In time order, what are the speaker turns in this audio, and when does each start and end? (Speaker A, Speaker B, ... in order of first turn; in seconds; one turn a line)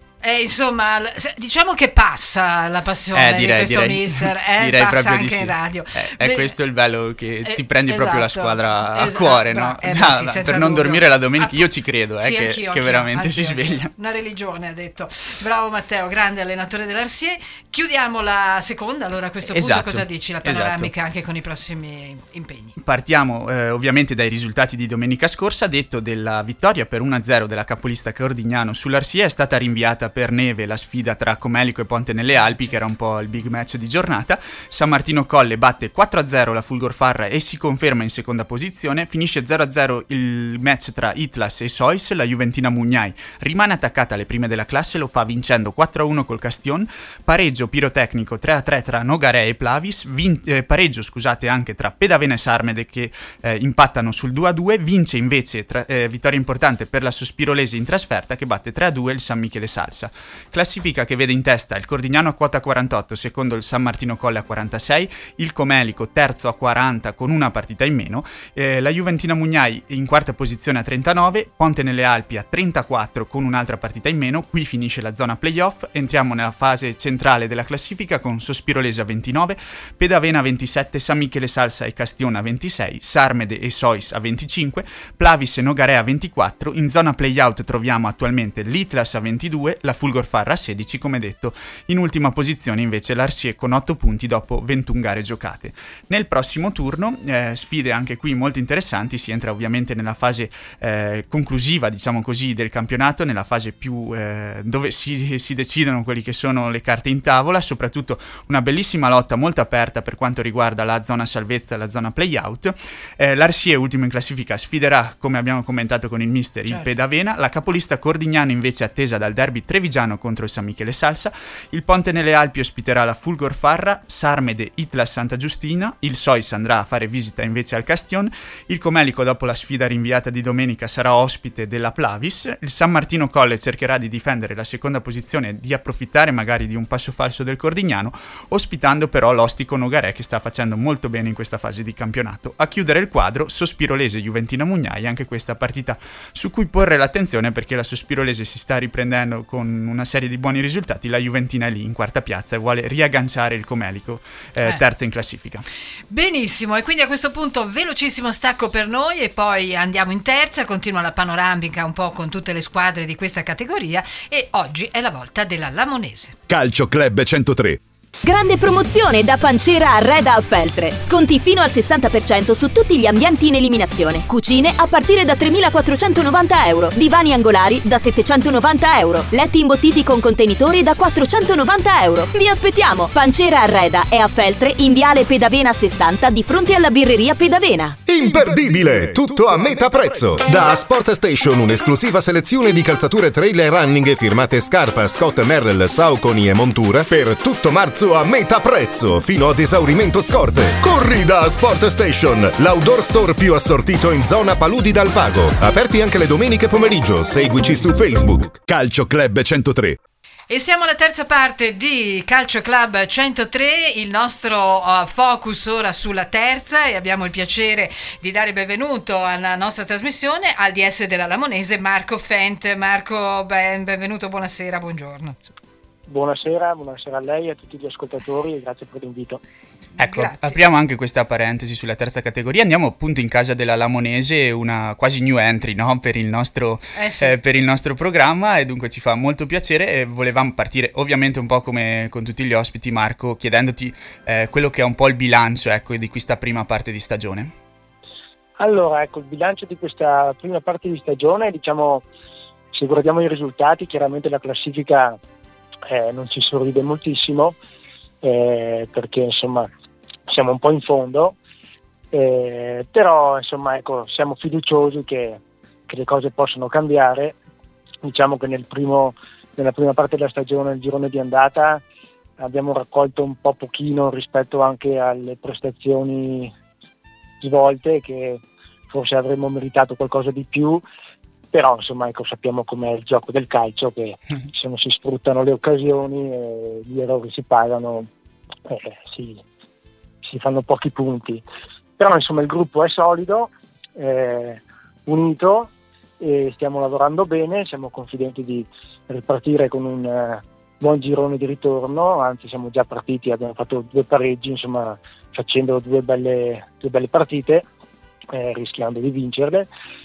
Speaker A: 0.2-6.5
Speaker B: 3.1-13.9
Speaker A: 7.4-22.8
Speaker B: 19.5-20.9
Speaker B: 22.8-155.6
Speaker A: 116.7-116.9
Speaker A: 156.1-166.3
Speaker C: 166.5-167.8
Speaker D: 168.2-188.0
Speaker E: 188.1-208.6
Speaker C: 208.6-210.0
Speaker A: 210.5-225.4
Speaker F: 226.1-229.4
Speaker A: 230.0-230.6
Speaker B: 230.0-247.5
Speaker A: 236.9-237.3
Speaker F: 248.6-252.0
Speaker F: 252.7-255.2
Speaker F: 255.9-257.6
Speaker F: 258.2-259.7
Speaker F: 260.3-261.4
Speaker F: 262.1-267.4
Speaker F: 268.0-271.8
Speaker F: 272.4-276.5
Speaker F: 277.4-280.8
Speaker F: 281.5-288.1
Speaker F: 288.6-289.4
Speaker F: 290.2-291.4
Speaker F: 292.0-307.6
Speaker F: 308.3-309.7